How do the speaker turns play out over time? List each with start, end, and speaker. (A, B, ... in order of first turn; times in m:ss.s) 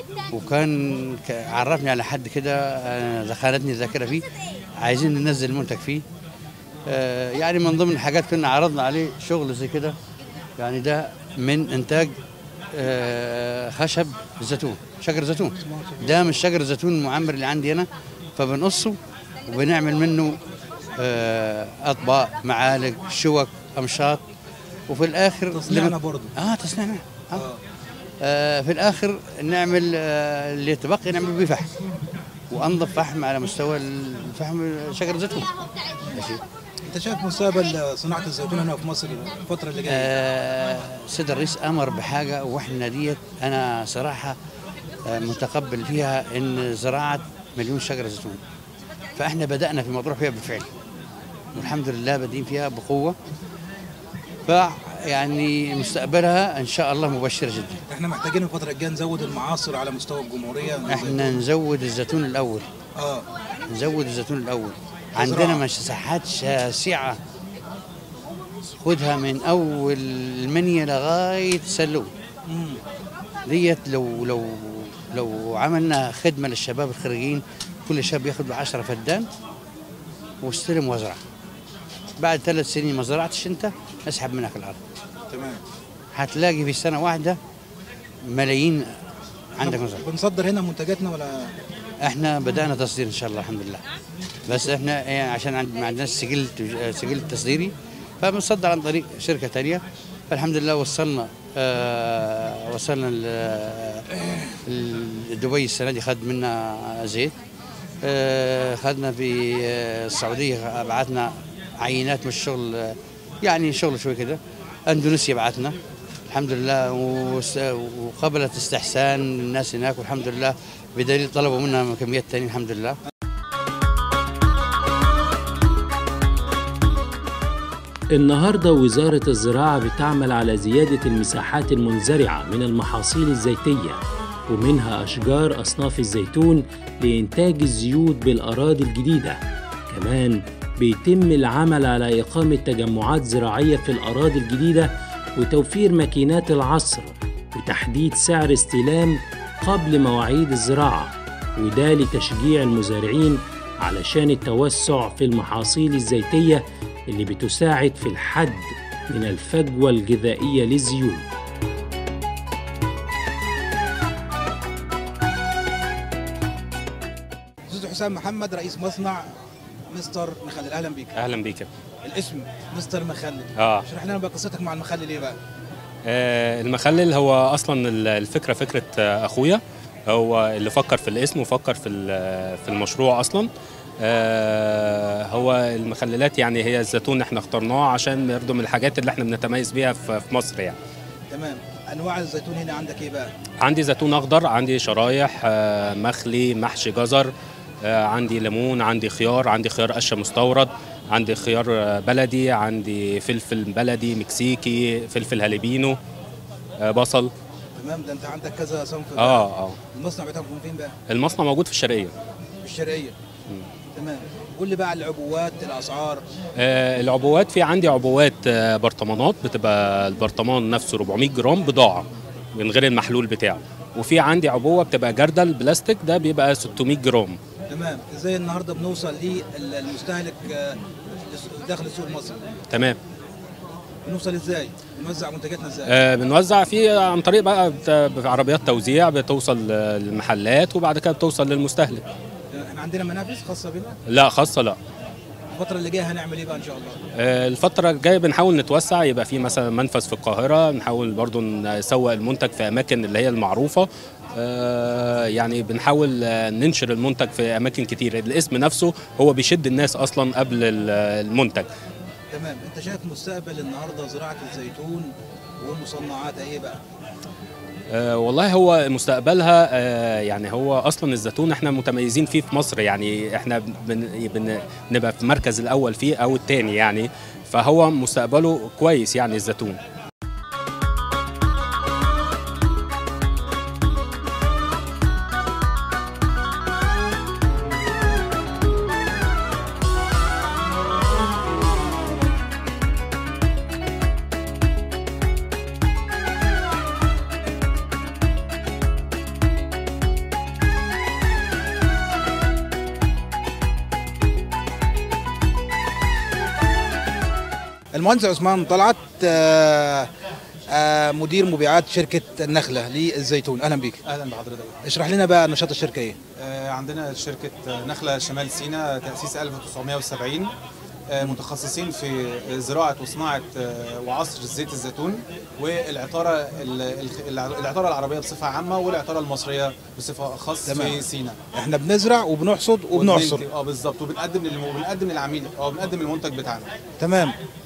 0:00.3-0:06.0 A
0:06.9-0:10.0 A
0:10.6-0:12.2 A
0:12.7-0:20.4 A
0:15.6-0:16.4 B
0:21.0-0:24.2 A
0:24.9-0:27.4 A
0:25.5-0:26.3 B
0:28.2-0:31.7 A
0:32.5-0:35.5 A
0:36.1-0:36.4 A
0:36.9-0:40.1 B
0:39.9-0:44.4 A
0:45.0-0:48.4 A
0:49.2-0:50.7 A
0:51.5-0:53.2 A
0:54.5-0:57.8 A
0:57.9-1:01.2 B
1:00.9-1:02.7 A
1:03.0-1:03.3 B
1:03.7-1:07.2 A
1:05.2-1:05.6 B
1:08.7-1:12.1 A
1:12.5-1:12.8 B
1:13.5-1:19.3 A
1:20.4-1:21.2 A
1:22.2-1:24.8 A
1:25.3-1:25.6 B
1:26.1-1:27.4 A
1:28.2-1:28.9 A
1:29.6-1:30.0 A
1:29.6-1:31.5 B
1:32.0-1:33.8 A
1:34.5-1:44.1 A
1:44.7-1:47.3 A
1:48.0-1:55.8 A
1:56.3-2:03.0 A
2:08.1-2:14.0 C
2:14.5-2:41.2 C
2:47.7-2:49.3 B
2:49.9-2:51.1 B
2:51.2-2:51.7 D
2:52.0-2:55.4 B
2:53.6-2:53.8 D
2:56.1-3:03.5 D
3:04.0-3:10.8 D
3:11.3-3:13.3 B
3:13.6-3:17.3 D
3:17.8-3:26.0 D
3:26.8-3:27.3 D
3:27.8-3:30.9 B
3:29.2-3:29.8 D
3:31.1-3:32.1 D
3:32.6-3:33.2 B
3:34.0-3:36.2 B
3:36.6-3:47.4 D
3:47.7-3:52.4 B
3:52.7-3:53.0 D
3:54.0-3:55.9 B
3:55.9-4:02.1 D
4:02.5-4:04.0 B
4:04.1-4:04.8 D
4:05.5-4:07.0 B
4:07.2-4:21.7 D
4:22.3-4:26.8 B
4:27.9-4:39.8 D
5:07.9-5:10.1 B
5:10.7-5:14.0 B
5:14.0-5:14.8 E
5:14.8-5:16.2 B
5:16.4-5:20.5 E
5:21.1-5:31.4 E
5:30.7-5:33.5 B
5:32.9-5:36.7 E
5:37.0-5:37.4 B